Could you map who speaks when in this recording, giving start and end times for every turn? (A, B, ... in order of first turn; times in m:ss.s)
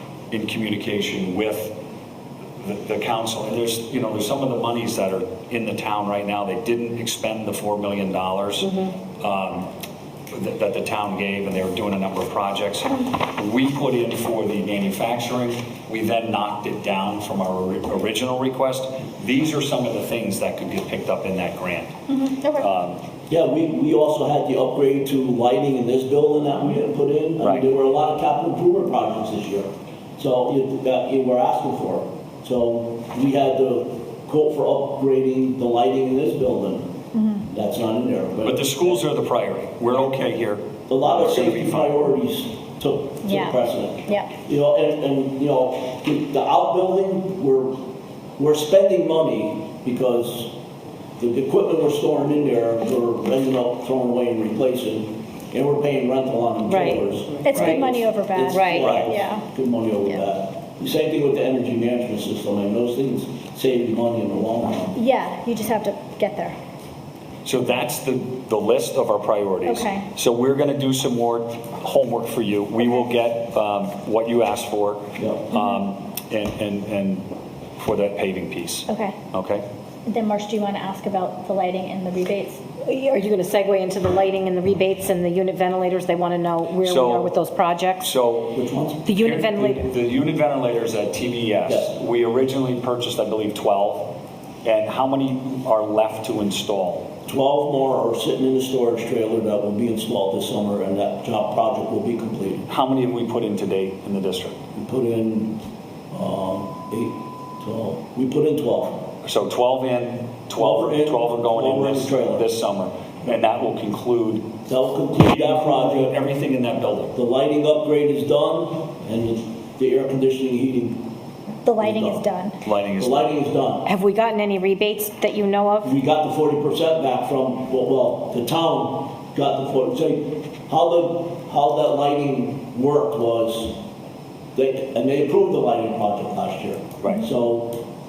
0:00.3-0:01.7 A
0:02.6-0:09.7 A
0:10.3-0:21.9 A
0:22.1-0:22.7 B
0:22.6-0:23.0 A
0:23.3-0:36.9 C
0:27.4-0:27.7 A
0:37.1-0:37.5 B
0:37.5-0:39.0 C
0:38.4-0:42.0 A
0:40.9-0:47.8 C
0:43.2-0:44.3 B
0:48.4-0:50.5 C
0:51.2-1:05.0 C
0:56.7-0:57.8 D
0:57.4-0:59.4 B
0:58.5-0:58.8 D
0:58.8-0:59.1 A
1:04.9-1:06.6 B
1:07.4-1:17.3 A
1:09.6-1:10.0 B
1:15.2-1:15.5 C
1:17.8-1:19.6 A
1:18.9-1:19.2 B
1:20.0-1:22.6 B
1:22.8-1:28.1 D
1:26.8-1:27.3 A
1:28.0-1:28.6 A
1:28.5-1:29.0 C
1:29.0-1:29.9 D
1:29.1-1:37.1 A
1:37.2-1:42.6 C
1:42.7-1:44.6 A
1:44.7-1:45.6 C
1:46.1-1:49.1 C
1:49.2-1:54.5 A
1:50.6-1:52.4 C
1:54.7-1:56.2 C
1:55.2-1:57.2 A
1:57.1-2:01.0 C
2:01.6-2:02.6 B
2:01.8-2:02.2 C
2:02.6-2:03.3 A
2:03.0-2:03.9 C
2:03.8-2:06.0 D
2:05.8-2:13.8 C
2:14.5-2:17.8 C